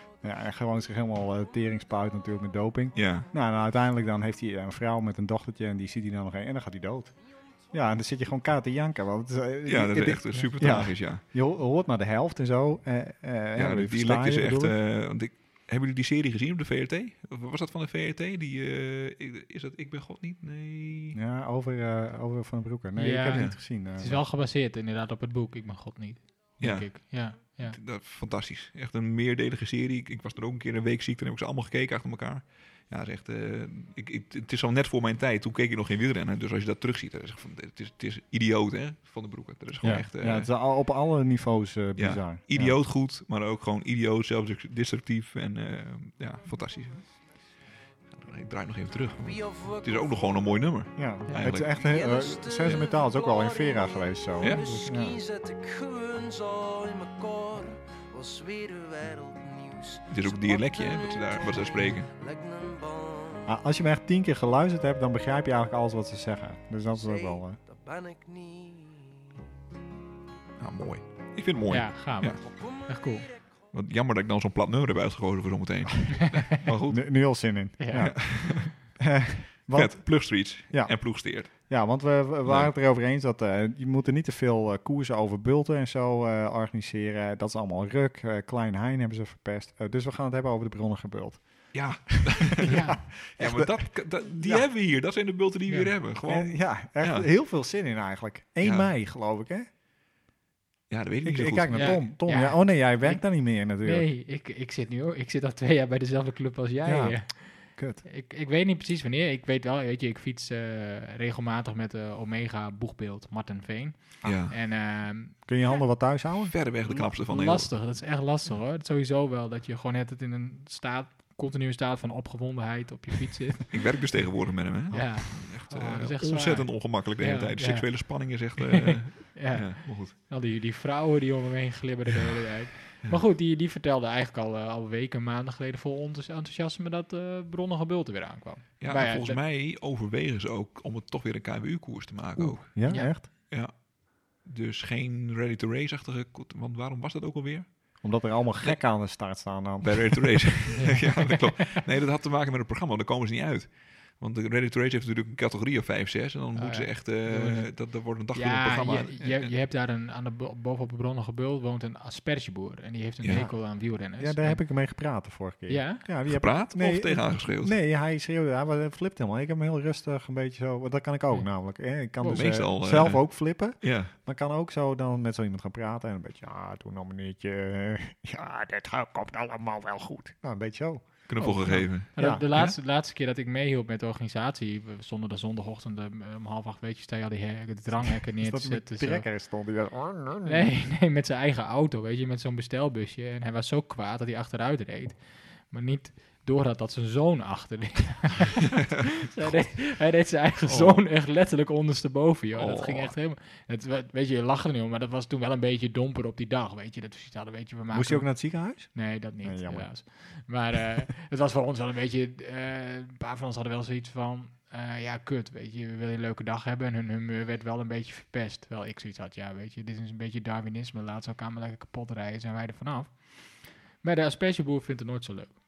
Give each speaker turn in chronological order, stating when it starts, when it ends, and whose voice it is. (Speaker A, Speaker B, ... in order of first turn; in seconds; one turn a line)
Speaker A: 0.2-14.8
Speaker B: 2.9-3.3
Speaker B: 9.7-11.2
Speaker B: 13.6-21.2
Speaker A: 21.1-24.2
Speaker C: 22.9-27.8
Speaker B: 23.3-23.6
Speaker B: 26.6-40.5
Speaker A: 39.8-42.8
Speaker B: 42.0-47.1
Speaker B: 48.1-51.8
Speaker D: 49.2-50.6
Speaker A: 50.9-55.2
Speaker D: 51.6-63.5
Speaker B: 60.1-62.1
Speaker A: 63.5-67.6
Speaker D: 66.9-69.2
Speaker B: 70.6-72.4
Speaker C: 71.7-73.3
Speaker D: 72.4-73.3
Speaker B: 73.7-79.0
Speaker A: 76.9-94.7
Speaker C: 77.8-78.6
Speaker B: 79.7-82.7
Speaker B: 91.7-97.3
Speaker C: 92.7-93.0
Speaker C: 95.7-95.9
Speaker A: 96.2-99.7
Speaker B: 98.6-98.9
Speaker B: 100.9-102.0
Speaker A: 101.2-104.1
Speaker C: 101.7-115.8
Speaker A: 106.8-108.0
Speaker A: 114.2-114.7
Speaker B: 114.2-114.5
Speaker A: 115.4-116.7
Speaker B: 116.5-117.8
Speaker C: 116.8-123.9
Speaker B: 123.7-130.1
Speaker C: 124.9-139.4
Speaker B: 138.8-149.0
Speaker A: 142.4-143.3
Speaker C: 142.9-143.1
Speaker A: 148.0-150.7
Speaker B: 149.8-159.5
Speaker C: 150.8-151.3
Speaker C: 156.6-164.7
Speaker A: 163.3-181.3
Speaker C: 165.7-166.0
Speaker B: 166.3-167.7
Speaker C: 172.2-172.5
Speaker B: 172.3-174.1
Speaker B: 181.3-182.8
Speaker C: 181.4-189.3
Speaker A: 182.1-182.5
Speaker A: 188.4-190.7
Speaker C: 190.4-225.6
Speaker B: 199.4-199.8
Speaker B: 200.7-201.0
Speaker B: 202.6-203.2
Speaker A: 207.9-210.0